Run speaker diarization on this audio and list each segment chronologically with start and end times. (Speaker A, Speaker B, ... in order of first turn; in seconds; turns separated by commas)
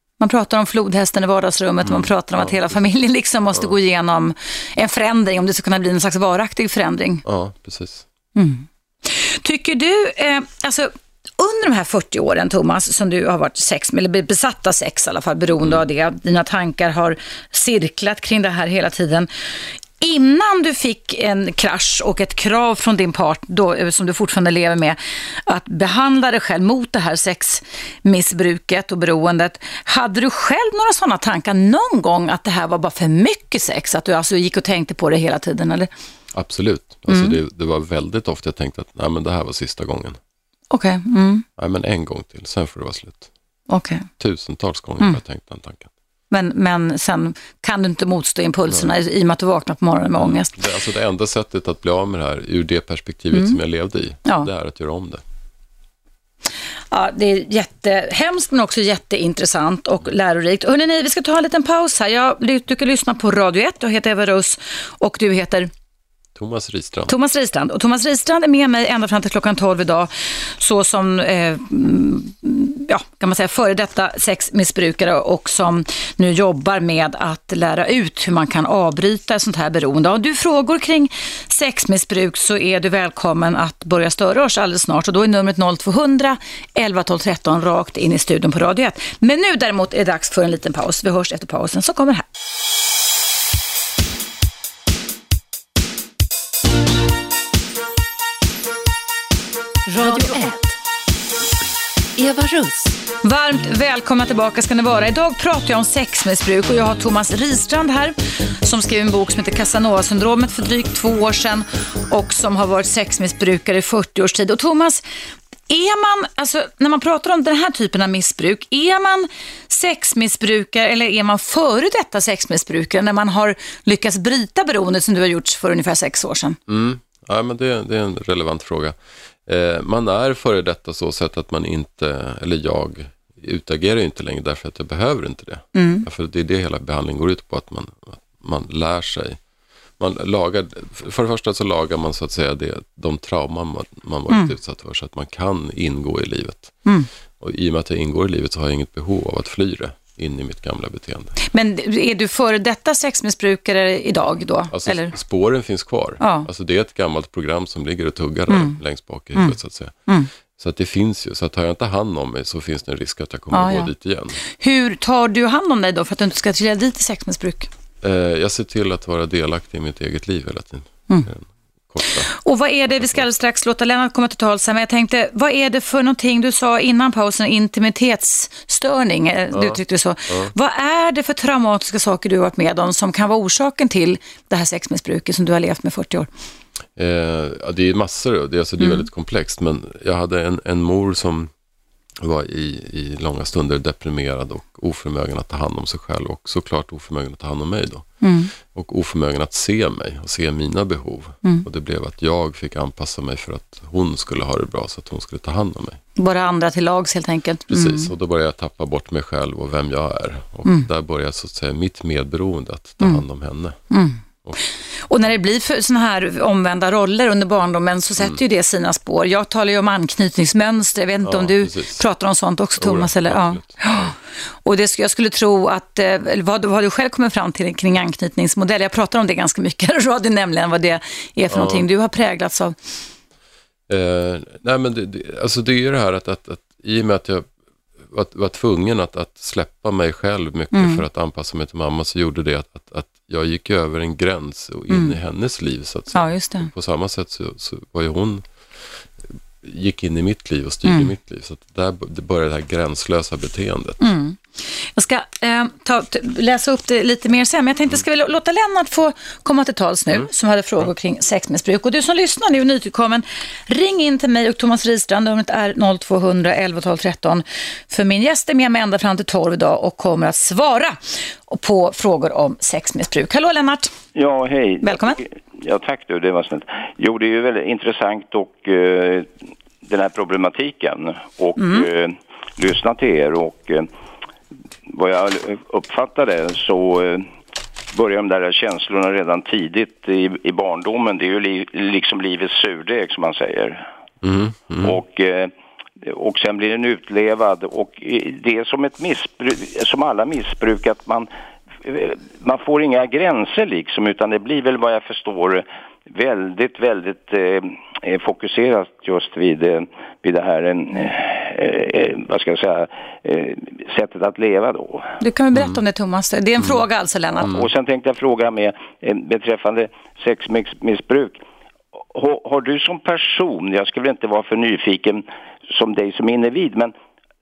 Speaker A: 0.2-7.2, Speaker B: 1.9-2.9, Speaker B: 7.2-8.1, Speaker A: 8.4-19.3, Speaker A: 20.0-35.9, Speaker B: 36.3-40.2, Speaker A: 37.1-37.4, Speaker A: 40.7-41.5, Speaker B: 41.6-43.3, Speaker A: 43.7-44.1, Speaker B: 44.2-45.9, Speaker A: 46.3-50.5, Speaker B: 48.7-48.9, Speaker B: 50.2-55.2, Speaker A: 56.9-65.7, Speaker B: 66.3-67.1, Speaker A: 67.1-92.3, Speaker A: 99.9-100.7, Speaker A: 102.2-115.0, Speaker A: 115.7-126.6, Speaker B: 126.7-139.4, Speaker A: 135.8-136.1, Speaker B: 140.0-146.8, Speaker A: 144.3-144.5, Speaker B: 147.4-151.4, Speaker A: 151.5-155.1, Speaker B: 154.7-159.9, Speaker A: 156.2-156.5, Speaker A: 158.5-158.8, Speaker B: 160.5-164.4, Speaker A: 163.5-163.9, Speaker A: 164.5-167.7, Speaker B: 168.0-172.3, Speaker A: 172.3-186.3, Speaker B: 179.5-180.5, Speaker B: 187.0-191.5, Speaker A: 188.8-189.1, Speaker B: 192.2-206.0, Speaker A: 198.2-198.5, Speaker A: 206.2-208.1, Speaker B: 207.7-213.8, Speaker A: 213.9-214.2, Speaker A: 215.1-224.1, Speaker B: 221.2-222.0, Speaker B: 222.8-224.1, Speaker A: 224.7-232.8, Speaker B: 231.5-231.9, Speaker B: 233.9-237.5, Speaker B: 238.1-248.9, Speaker A: 240.7-241.0, Speaker A: 246.1-246.7, Speaker B: 249.6-254.0, Speaker A: 250.8-251.1, Speaker A: 254.0-254.4, Speaker A: 254.9-273.9, Speaker C: 274.1-279.3, Speaker A: 274.8-275.2, Speaker C: 279.8-283.9, Speaker A: 281.6-281.9, Speaker C: 284.9-287.3, Speaker C: 287.9-293.9, Speaker B: 294.2-295.0, Speaker C: 294.8-301.3, Speaker C: 301.8-315.2, Speaker A: 315.2-317.5, Speaker C: 317.4-321.4, Speaker C: 322.1-326.9